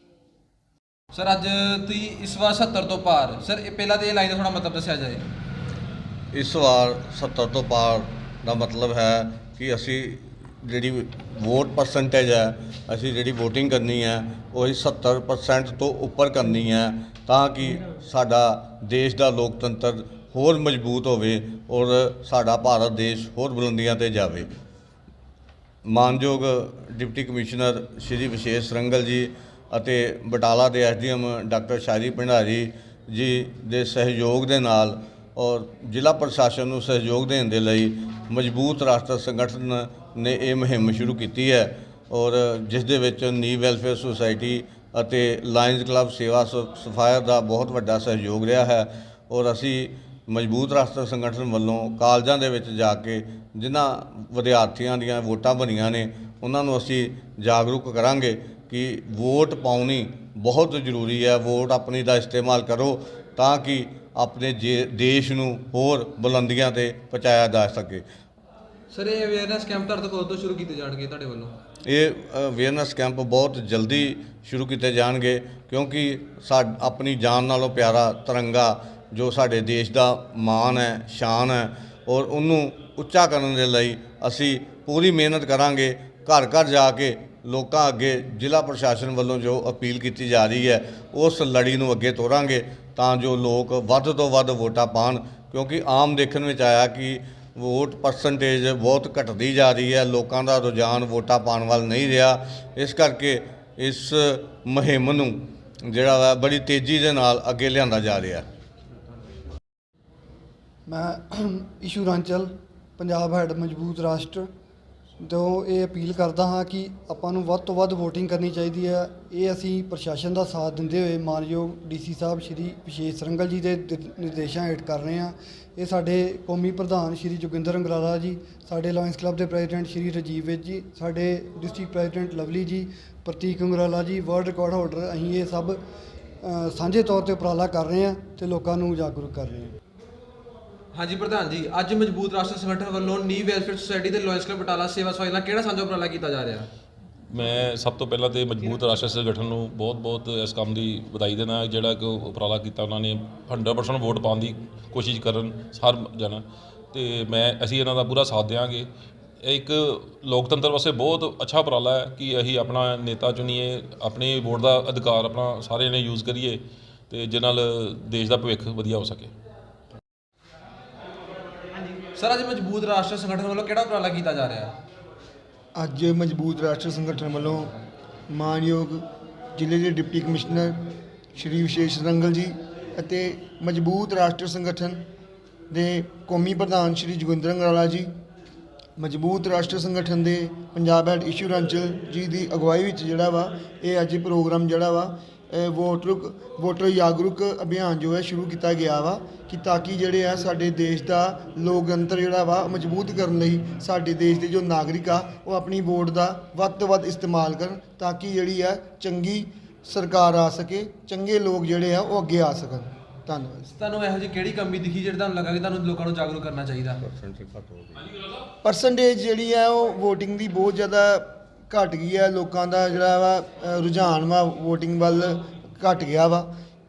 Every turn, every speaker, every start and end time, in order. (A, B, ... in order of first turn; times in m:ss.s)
0:01.1-0:05.3 A
0:06.3-0:24.5 B
0:25.8-1:08.0 B
1:08.9-1:11.5 A
1:11.8-1:48.4 B
1:50.9-1:54.5 C
1:55.2-2:15.8 C
2:16.4-2:19.7 C
2:20.9-2:26.7 A
2:27.3-2:38.9 D
2:39.4-2:49.3 D
2:52.2-2:54.7 A
2:55.7-2:57.7 E
2:58.3-2:59.0 E
2:59.6-3:00.8 E
3:01.3-3:05.0 E
3:05.7-3:08.1 E
3:09.0-3:33.6 E
3:33.7-3:37.0 A
3:37.0-3:38.1 B
3:38.6-3:46.5 E